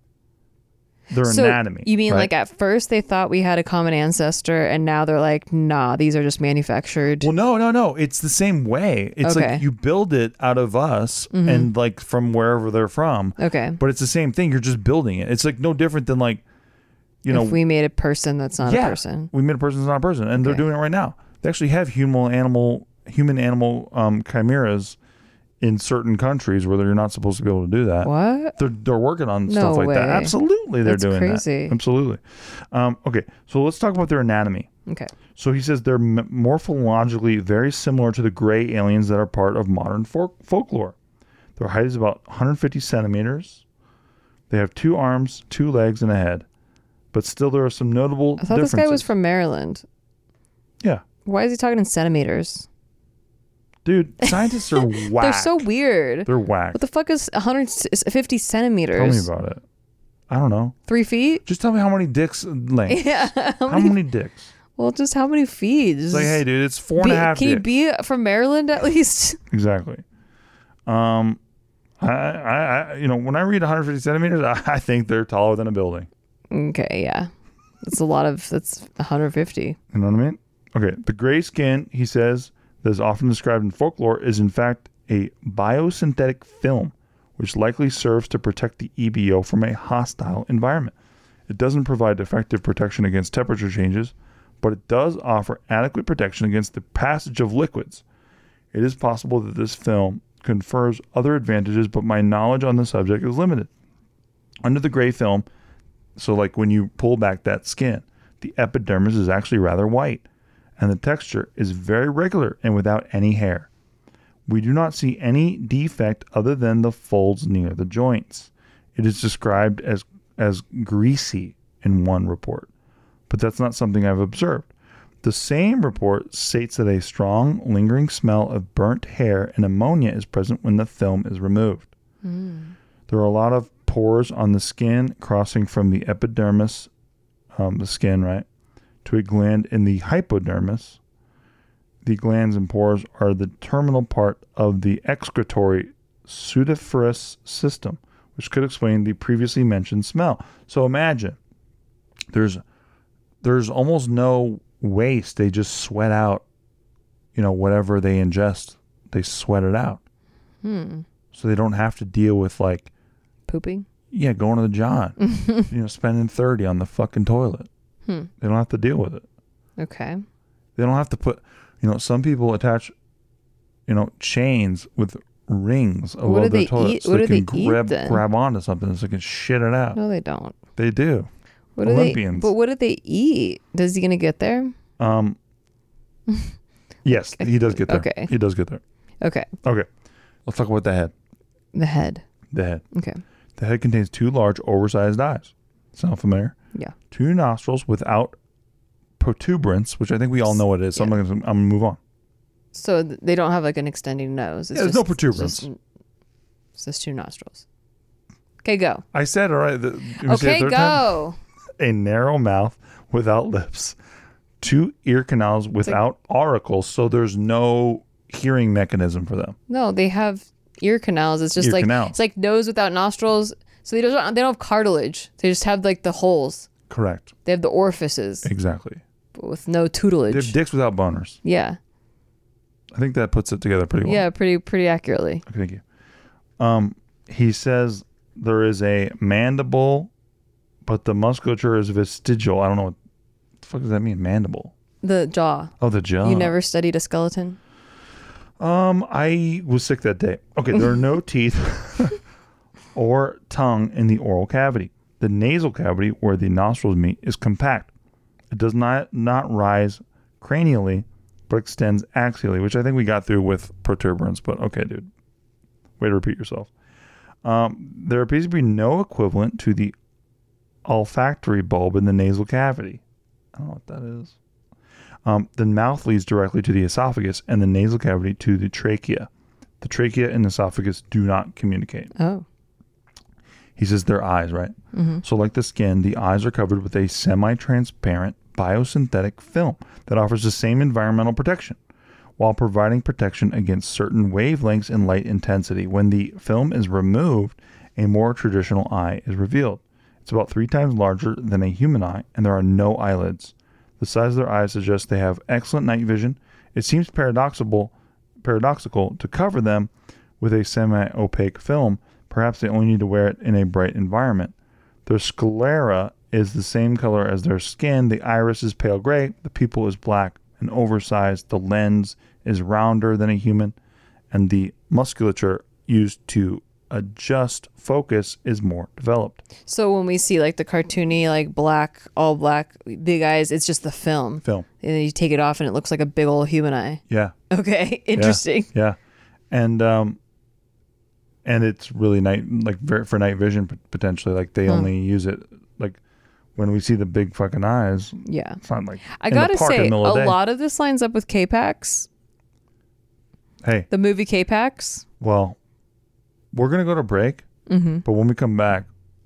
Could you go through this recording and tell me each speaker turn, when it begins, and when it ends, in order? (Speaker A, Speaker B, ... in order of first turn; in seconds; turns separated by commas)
Speaker A: 1.1-2.3, Speaker B: 1.2-7.3, Speaker A: 7.2-16.4, Speaker B: 9.2-9.6, Speaker B: 11.3-11.7, Speaker B: 13.4-13.8, Speaker A: 17.2-17.6, Speaker B: 17.3-19.3, Speaker A: 18.6-25.0, Speaker B: 20.4-20.6, Speaker A: 25.6-34.7, Speaker B: 28.0-28.6, Speaker B: 29.5-31.8, Speaker B: 34.9-35.1, Speaker A: 35.4-40.9, Speaker A: 41.6-43.6, Speaker A: 44.5-46.4, Speaker A: 47.1-49.1, Speaker B: 48.4-49.8, Speaker B: 51.2-52.6, Speaker A: 53.9-55.6, Speaker B: 54.2-59.3, Speaker A: 56.3-56.8, Speaker A: 58.9-59.6, Speaker A: 60.3-60.8, Speaker B: 60.9-61.4, Speaker A: 61.4-63.0, Speaker B: 62.9-64.0, Speaker A: 63.6-64.5, Speaker B: 64.8-66.4, Speaker A: 66.1-67.7, Speaker B: 67.0-69.4, Speaker A: 69.5-70.0, Speaker A: 70.9-71.4, Speaker A: 72.0-76.1, Speaker B: 76.5-77.3, Speaker B: 77.8-79.8, Speaker A: 79.9-90.9, Speaker A: 91.5-98.0, Speaker A: 98.7-103.7, Speaker A: 104.6-105.5, Speaker A: 106.2-110.2, Speaker A: 110.8-113.7, Speaker A: 114.5-122.7, Speaker A: 123.3-124.7, Speaker A: 125.2-131.9, Speaker B: 132.2-132.8, Speaker A: 133.1-136.9, Speaker A: 137.6-138.4, Speaker A: 139.0-141.0, Speaker A: 142.0-151.4, Speaker A: 152.3-152.6, Speaker A: 153.4-156.4, Speaker A: 157.3-160.0, Speaker B: 160.6-161.1, Speaker A: 161.3-162.9, Speaker B: 163.5-163.9, Speaker A: 164.1-167.7, Speaker B: 165.3-165.7, Speaker A: 168.4-169.2, Speaker B: 169.8-170.2, Speaker A: 170.8-172.9, Speaker A: 173.9-180.0, Speaker B: 176.2-178.2, Speaker B: 179.9-180.6, Speaker A: 180.8-181.3, Speaker B: 181.8-184.7, Speaker A: 181.8-182.5, Speaker A: 185.0-185.4, Speaker B: 186.3-186.5, Speaker A: 187.1-188.8, Speaker B: 187.4-188.3, Speaker B: 189.2-189.5, Speaker A: 190.4-191.1, Speaker B: 191.7-192.2, Speaker A: 192.5-192.8, Speaker B: 192.9-193.2, Speaker A: 193.6-196.6, Speaker A: 197.1-198.4, Speaker A: 199.2-202.0, Speaker B: 200.5-201.1, Speaker B: 202.7-205.8, Speaker A: 204.7-205.7, Speaker B: 206.8-207.6, Speaker B: 208.6-209.0, Speaker A: 209.1-211.1, Speaker B: 210.2-211.4, Speaker A: 211.8-213.9, Speaker A: 214.6-219.6, Speaker B: 219.7-226.7, Speaker A: 221.6-222.2, Speaker A: 226.9-227.3, Speaker B: 227.4-228.5, Speaker A: 228.4-229.0, Speaker B: 229.3-230.6, Speaker A: 230.3-231.4, Speaker B: 231.4-231.8, Speaker A: 232.9-234.3, Speaker B: 234.0-235.4, Speaker A: 235.4-235.8, Speaker A: 236.6-240.1, Speaker A: 240.8-242.9, Speaker A: 243.6-244.7, Speaker B: 245.0-247.6, Speaker A: 245.8-246.6, Speaker A: 248.6-252.2, Speaker A: 252.9-257.9, Speaker A: 258.5-265.1, Speaker A: 266.0-266.7, Speaker A: 267.4-269.9, Speaker A: 270.9-273.0, Speaker A: 273.5-274.4, Speaker A: 275.2-279.3, Speaker A: 279.8-282.1, Speaker B: 282.1-282.4, Speaker A: 283.8-291.8, Speaker B: 284.9-285.2, Speaker A: 292.4-314.5, Speaker A: 315.1-323.8, Speaker A: 324.3-329.4, Speaker B: 329.6-338.7, Speaker A: 337.1-337.4, Speaker A: 338.1-339.0, Speaker A: 339.5-340.2, Speaker A: 341.4-346.0, Speaker A: 346.6-350.4, Speaker B: 348.3-348.6, Speaker B: 349.1-352.1, Speaker A: 353.6-353.9, Speaker B: 353.9-355.1, Speaker A: 355.2-355.6, Speaker A: 356.5-357.4, Speaker B: 357.7-358.1, Speaker A: 358.1-358.9